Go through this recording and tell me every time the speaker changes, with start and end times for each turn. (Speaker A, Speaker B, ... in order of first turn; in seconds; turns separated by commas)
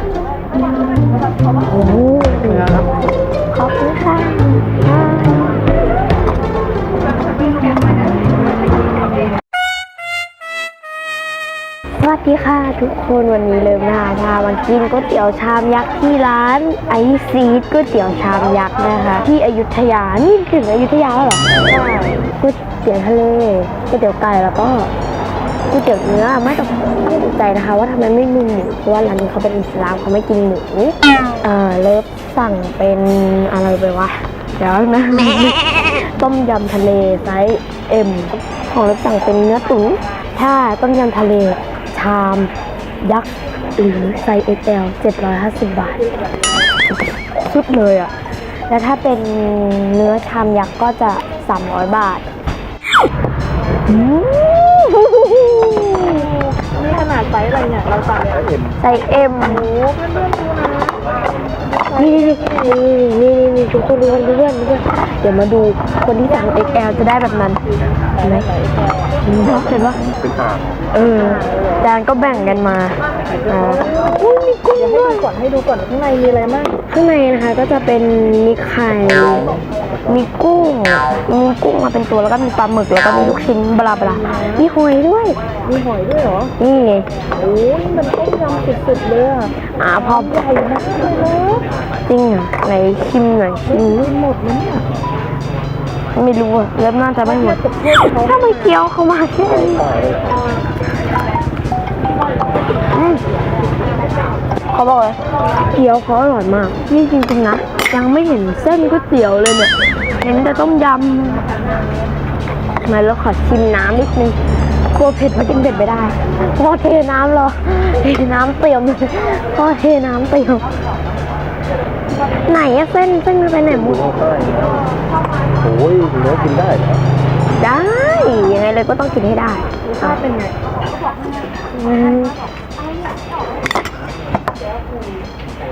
Speaker A: 1.6-2.9, Speaker A: 3.5-5.6, Speaker A: 12.0-21.5, Speaker B: 21.7-22.2, Speaker A: 22.4-24.9, Speaker A: 25.7-42.5, Speaker A: 43.0-46.0, Speaker A: 47.3-48.1, Speaker A: 48.7-52.2, Speaker A: 53.9-56.3, Speaker B: 56.6-58.4, Speaker C: 58.3-58.7, Speaker A: 58.8-59.7, Speaker B: 59.6-60.9, Speaker A: 61.9-67.6, Speaker A: 68.2-68.5, Speaker B: 68.5-68.9, Speaker A: 69.2-70.0, Speaker C: 69.8-70.7, Speaker A: 70.9-75.3, Speaker B: 74.7-76.7, Speaker A: 76.9-85.4, Speaker B: 84.1-84.6, Speaker B: 85.6-86.5, Speaker A: 86.6-87.1, Speaker B: 87.4-89.5, Speaker A: 89.6-90.4, Speaker B: 90.1-91.7, Speaker A: 92.0-94.1, Speaker B: 93.7-94.9, Speaker A: 96.1-99.8, Speaker B: 97.2-98.7, Speaker C: 99.4-100.4, Speaker A: 102.9-103.2, Speaker A: 104.7-111.5, Speaker A: 112.8-114.4, Speaker A: 114.9-120.7, Speaker A: 122.4-124.0, Speaker C: 123.7-124.8, Speaker C: 125.6-127.0, Speaker A: 127.6-130.2, Speaker B: 129.9-130.5, Speaker A: 131.7-132.3